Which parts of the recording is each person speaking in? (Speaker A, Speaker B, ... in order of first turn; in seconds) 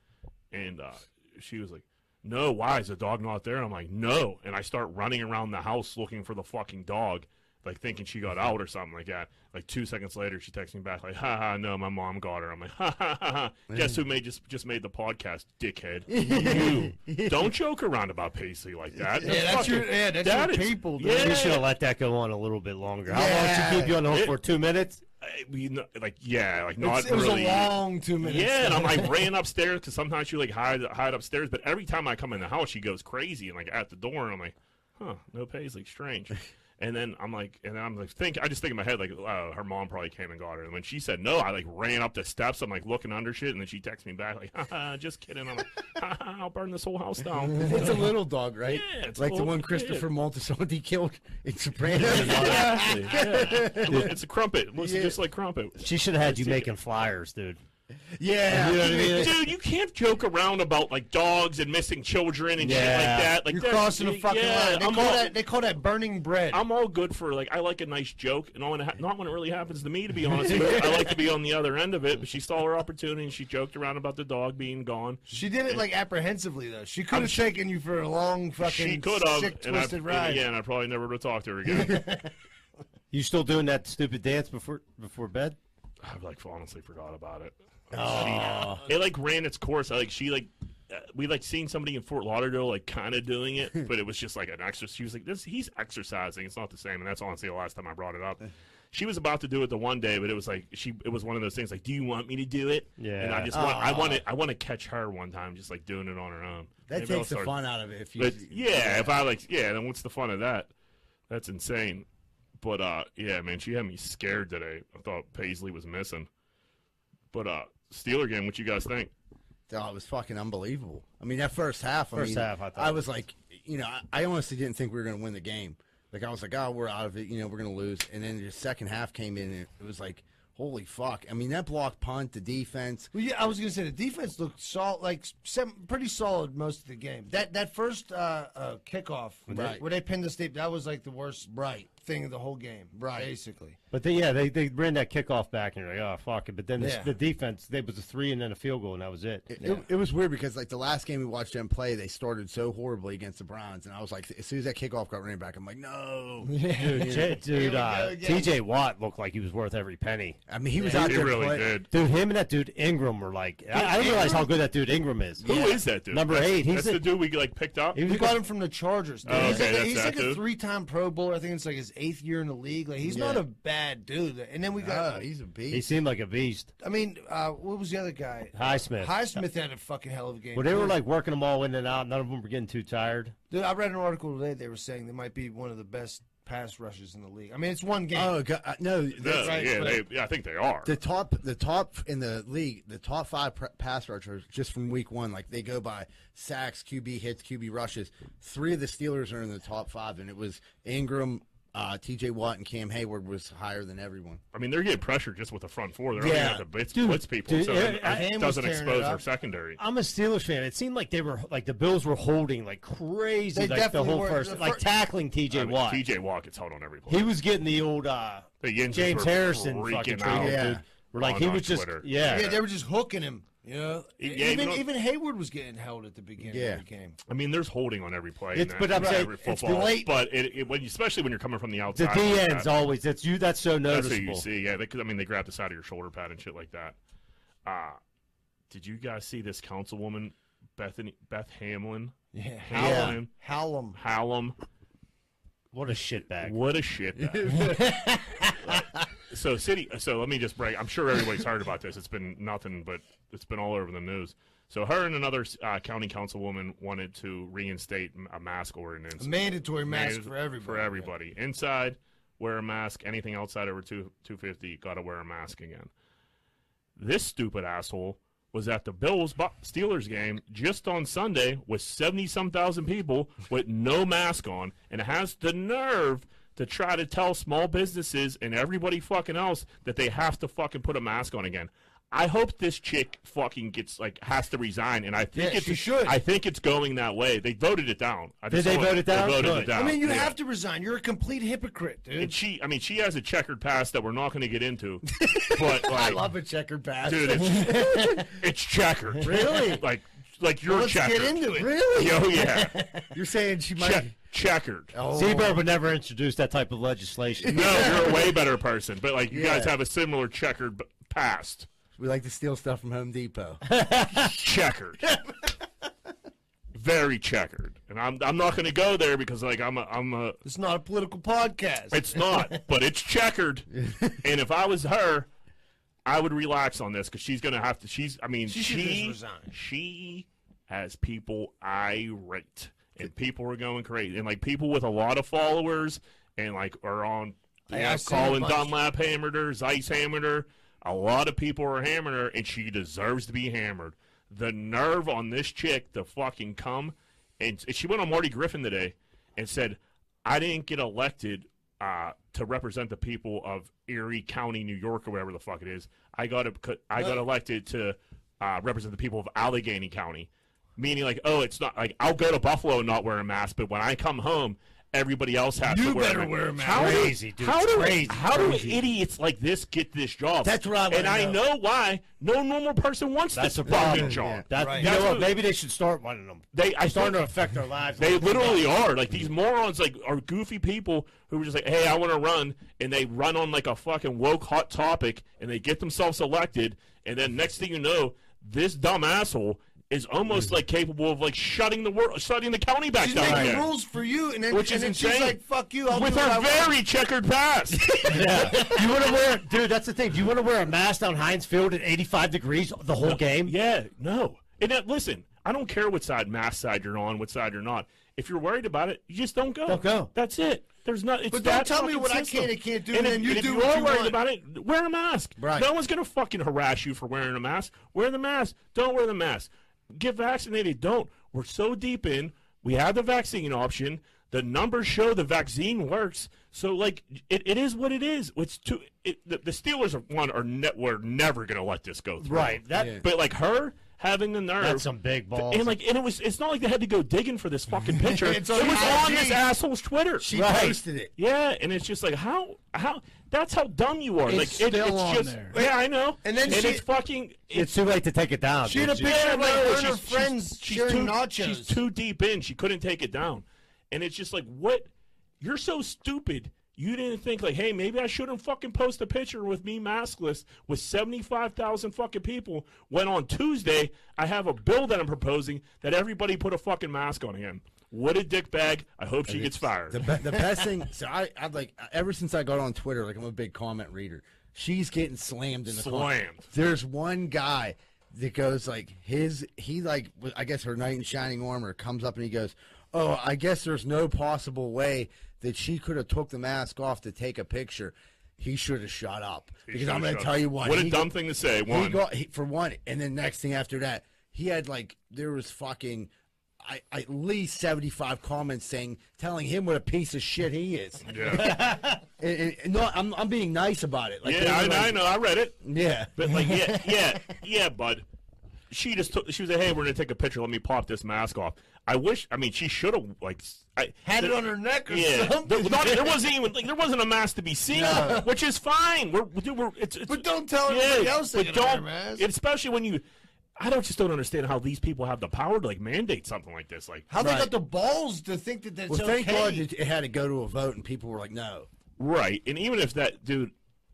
Speaker A: 0.5-21.6, 24.1-24.4, 25.2-48.1, 48.7-50.1, 52.0-56.7, 58.8-65.3, 66.5-75.9, 77.1-77.5, 78.6-82.2, 86.0-107.5, 108.2-110.7, 111.3-112.0, 112.6-116.3, 117.3-119.1, 160.9-161.9, 165.4-168.0, 169.2-170.4, 189.2-190.9, 204.5-209.8, 215.5-217.3, 218.6-222.6, 224.2-224.8, 227.3-232.7, 233.9-236.9, 237.6-238.0, 238.7-243.3, 243.9-244.6, 246.4-247.8, 248.6-265.9, 267.0-290.4, 292.2-296.3, 297.1-302.8, 303.8-304.9, 307.5-311.7, 314.1-315.1, 316.7-320.4, 321.9-325.3, 326.1-375.4, 376.5-377.3, 378.0-393.7, 394.5-398.4, 403.0-447.7, 448.9-454.9, 455.4-470.1, 475.7-476.5, 489.7-492.0, 501.1-501.6, 504.2-505.6, 506.1-508.0, 508.7-523.0, 523.6-527.1, 532.0-533.5
Speaker B: 16.1-17.5, 23.1-23.9, 47.6-54.1, 54.8-55.1, 58.1-59.3, 87.9-88.9, 103.5-104.2, 106.9-109.1, 119.7-133.1, 139.5-139.8, 141.4-141.9, 142.9-143.3, 149.5-157.4, 160.5-161.8, 165.4-165.8, 173.0-173.4, 174.8-175.8, 188.1-190.0, 190.8-204.4, 206.2-206.6, 220.3-220.8, 226.4-226.8, 242.8-243.2, 247.2-247.9, 295.1-298.4, 299.2-299.9, 301.5-302.4, 303.1-304.1, 304.9-305.6, 307.4-308.2, 309.3-309.7, 312.0-313.6, 370.4-371.4, 373.7-374.4, 393.2-393.6, 415.4-415.7, 432.7-433.0, 440.2-441.1, 469.3-491.1, 491.7-496.1, 496.6-505.0, 505.6-506.2, 517.7-518.2, 527.2-527.5, 528.9-531.7
Speaker C: 19.2-21.6, 23.4-23.9, 26.8-29.2, 52.4-52.9, 62.6-66.6, 70.4-71.1, 75.3-80.4, 81.7-82.2, 88.1-88.9, 133.1-143.8, 146.8-147.1, 156.4-158.5, 163.7-164.5, 168.0-175.2, 176.8-181.0, 183.5-188.4, 189.3-190.0, 208.0-209.2, 213.5-214.8, 222.2-227.2, 228.9-230.2, 242.3-244.0, 247.6-248.6, 259.2-261.1, 285.4-286.2, 289.7-292.4, 297.5-298.2, 300.6-303.1, 320.4-322.6, 328.5-329.5, 337.7-338.7, 365.6-367.2, 374.5-374.9, 393.0-396.8, 398.0-399.1, 411.3-414.2, 438.1-439.4, 444.2-446.8, 448.6-451.8, 501.4-501.9, 506.3-507.2, 514.0-516.2, 517.7-518.3, 520.1-522.2, 527.1-529.6
Speaker D: 21.1-25.0, 52.1-52.7, 53.9-54.1, 55.8-57.6, 58.5-59.4, 62.6-63.3, 83.1-85.6, 103.0-103.5, 122.1-123.0, 143.9-149.8, 156.9-161.2, 161.9-165.5, 166.1-167.1, 167.9-168.4, 169.3-169.6, 175.7-176.7, 178.5-179.4, 180.5-183.3, 206.9-208.3, 209.8-216.0, 217.1-222.6, 228.5-229.4, 231.9-234.4, 245.7-246.6, 288.5-289.9, 305.1-308.2, 366.6-368.8, 373.3-378.8, 398.1-403.5, 409.7-410.1, 432.2-433.0, 434.6-435.8, 440.3-440.8, 447.5-449.1